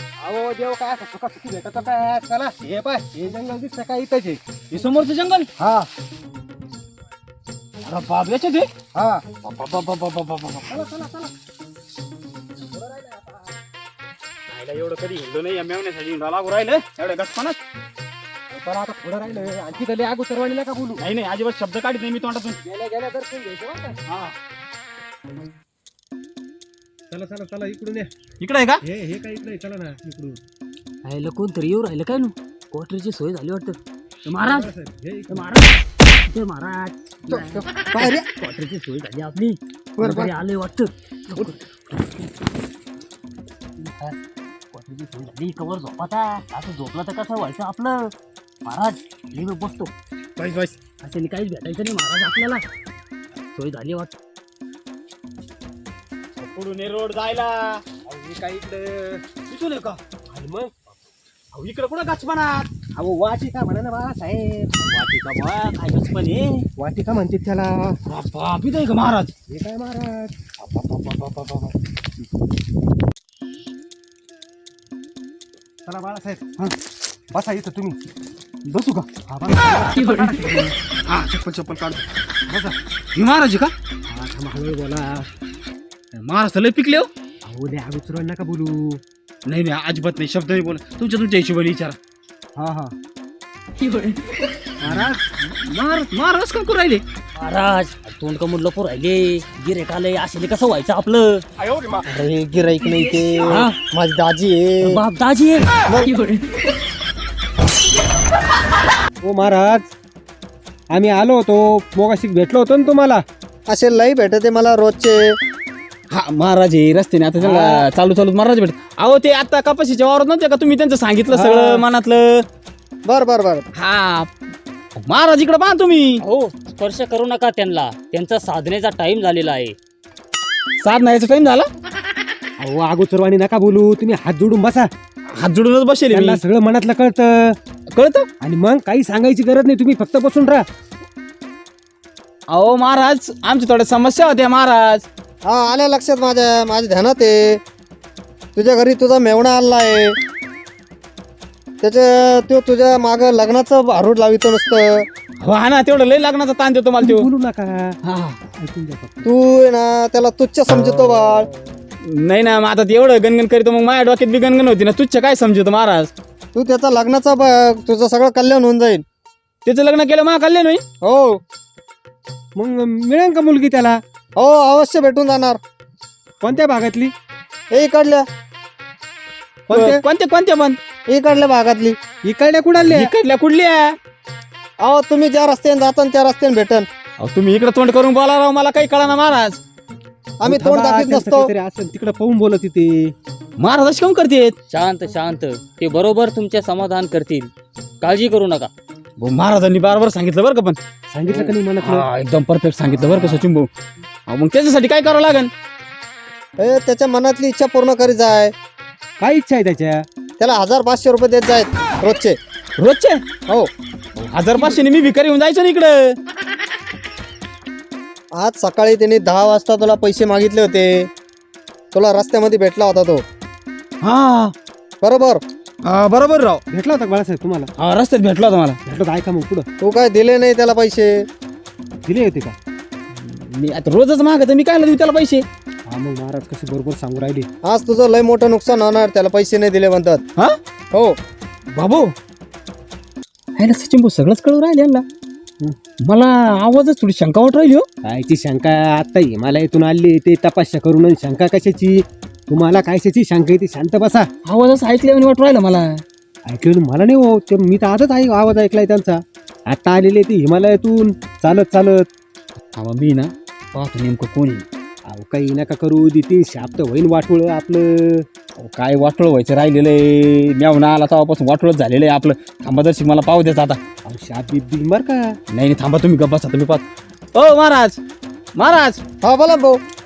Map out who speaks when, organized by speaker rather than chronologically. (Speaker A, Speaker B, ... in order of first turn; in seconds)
Speaker A: 0.2-4.4, 5.6-5.9, 8.9-9.2, 10.7-11.3, 12.6-13.5, 18.5-21.0, 22.6-24.0, 27.1-28.1, 28.8-30.4, 34.4-35.4, 58.0-59.2, 60.3-60.9, 63.0-64.8, 66.8-68.0, 69.5-70.3, 75.8-76.5, 77.3-78.0, 79.2-80.7, 82.5-82.8, 84.1-85.3, 87.4-89.0, 94.8-95.2, 109.2-109.9, 110.9-113.2, 121.4-121.7, 132.6-134.9, 136.1-137.6, 138.4-140.7, 157.0-159.3, 172.6-174.0, 176.4-177.1, 179.7-180.0, 182.2-183.1, 190.4-193.1, 201.1-202.1, 202.9-203.4, 209.2-210.0, 226.7-227.7, 228.8-229.7, 232.1-232.6, 235.9-237.5, 248.0-254.3, 256.5-262.1, 265.1-268.3, 274.0-275.4
Speaker B: 4.7-5.5, 7.8-8.7, 9.4-10.7, 14.5-17.6, 21.0-22.6, 24.1-24.3, 28.4-28.8, 50.4-50.7, 56.4-57.8, 59.5-60.0, 61.5-62.7, 64.8-66.7, 68.0-69.3, 70.6-71.8, 78.7-79.1, 81.0-82.0, 83.1-83.7, 86.2-87.1, 89.4-92.0, 94.8-97.0, 116.1-122.4, 123.7-124.3, 125.0-126.2, 130.8-131.7, 135.3-136.4, 137.9-138.3, 142.5-145.1, 155.4-157.3, 158.0-158.4, 162.0-166.1, 169.6-170.8, 179.7-180.8, 182.9-184.0, 187.2-189.6, 193.6-194.6, 199.2-203.7, 204.3-205.5, 212.8-213.2, 214.2-216.2, 224.0-224.5, 225.8-226.6, 227.8-228.8, 233.1-235.4, 241.7-242.1, 243.6-245.0, 246.0-247.9, 254.4-256.0, 262.7-264.6, 268.6-273.8, 275.5-276.8, 277.3-278.0, 278.6-279.0
Speaker C: 31.0-34.7, 35.3-41.6, 43.8-44.2, 44.7-48.1, 48.6-49.9, 51.0-52.6, 53.5-54.1, 97.3-101.4, 103.5-103.8, 104.8-105.7, 126.2-129.8, 194.7-198.7
Speaker D: 37.3-38.2, 40.0-40.3, 102.0-105.0, 105.9-106.1, 113.7-115.4, 123.0-123.6, 145.4-147.6, 148.5-150.2, 151.8-155.1, 159.2-161.5, 166.5-169.0, 171.0-171.4, 174.4-175.6, 177.7-178.2, 181.1-182.0, 184.8-186.9, 190.4-191.5, 206.6-208.5, 210.4-212.4, 218.3-221.1, 221.9-223.2, 225.0-225.4, 229.8-231.2, 237.6-240.2, 279.2-279.8